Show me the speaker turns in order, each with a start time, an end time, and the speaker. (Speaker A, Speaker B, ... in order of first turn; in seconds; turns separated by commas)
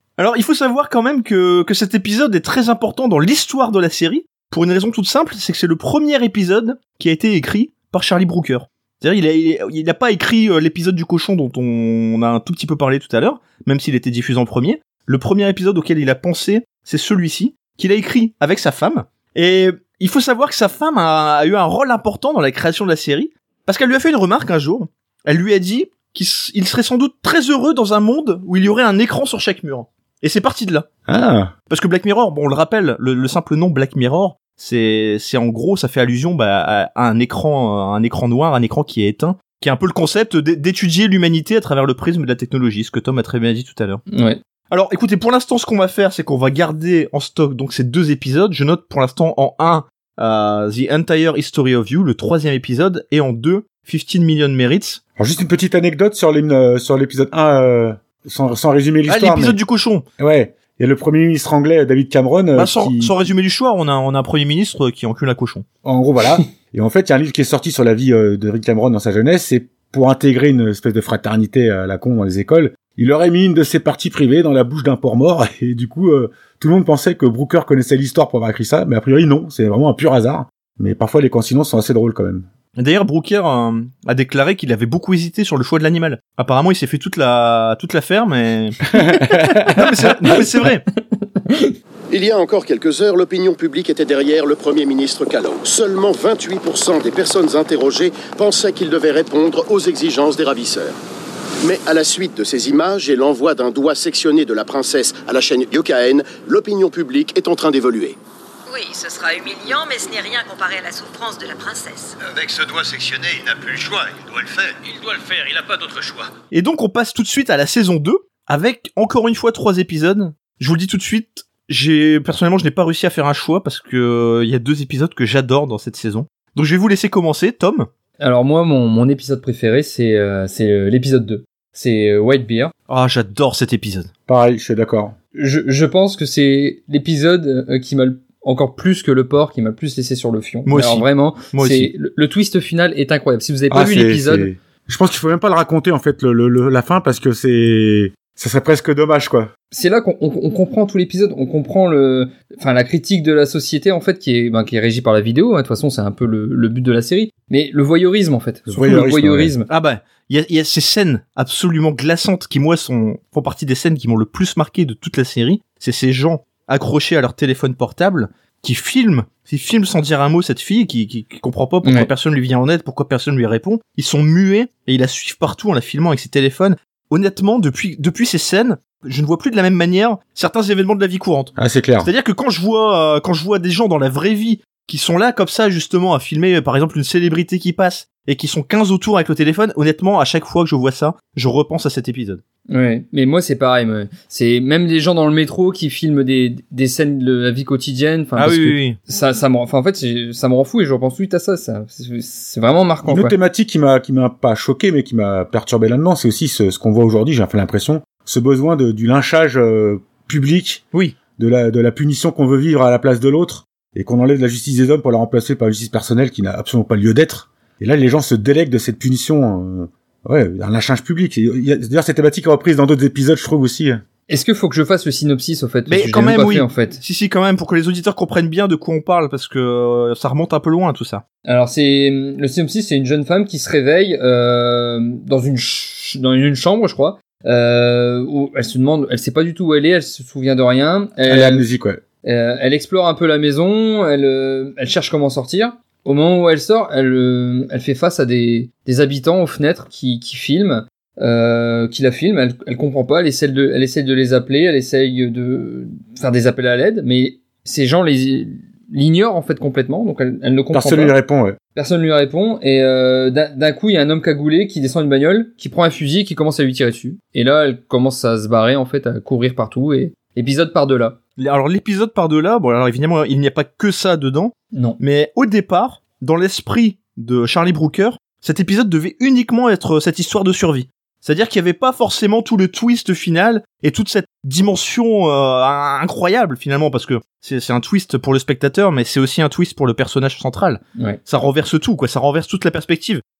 Speaker A: 0.2-30.9, Speaker B: 31.1-31.5, Speaker A: 31.7-44.0, Speaker C: 44.1-44.4, Speaker A: 44.7-55.0, Speaker B: 55.2-59.6, Speaker A: 59.1-60.0, Speaker B: 60.2-63.1, Speaker A: 62.5-65.7, Speaker B: 65.8-82.5, Speaker A: 82.8-89.0, Speaker B: 88.9-90.4, Speaker A: 89.7-90.8, Speaker C: 91.2-91.8, Speaker D: 92.1-101.0, Speaker D: 101.6-108.2, Speaker E: 108.7-112.2, Speaker F: 112.2-116.3, Speaker A: 116.5-127.9, Speaker C: 128.2-132.7, Speaker A: 132.9-134.1, Speaker B: 134.3-135.2, Speaker C: 135.3-144.5, Speaker A: 140.7-141.9, Speaker B: 143.7-149.5, Speaker C: 149.7-159.7, Speaker B: 158.7-159.5, Speaker A: 159.7-192.4, Speaker C: 171.8-172.1, Speaker B: 181.6-182.1, Speaker C: 192.7-203.3, Speaker A: 198.4-199.0, Speaker B: 203.1-210.8, Speaker B: 211.4-224.0, Speaker C: 224.3-227.0, Speaker A: 225.9-231.2, Speaker C: 231.4-241.7, Speaker B: 241.3-242.0, Speaker C: 242.2-261.1, Speaker B: 260.7-261.6, Speaker C: 261.8-271.2, Speaker A: 271.4-293.2, Speaker C: 274.7-275.0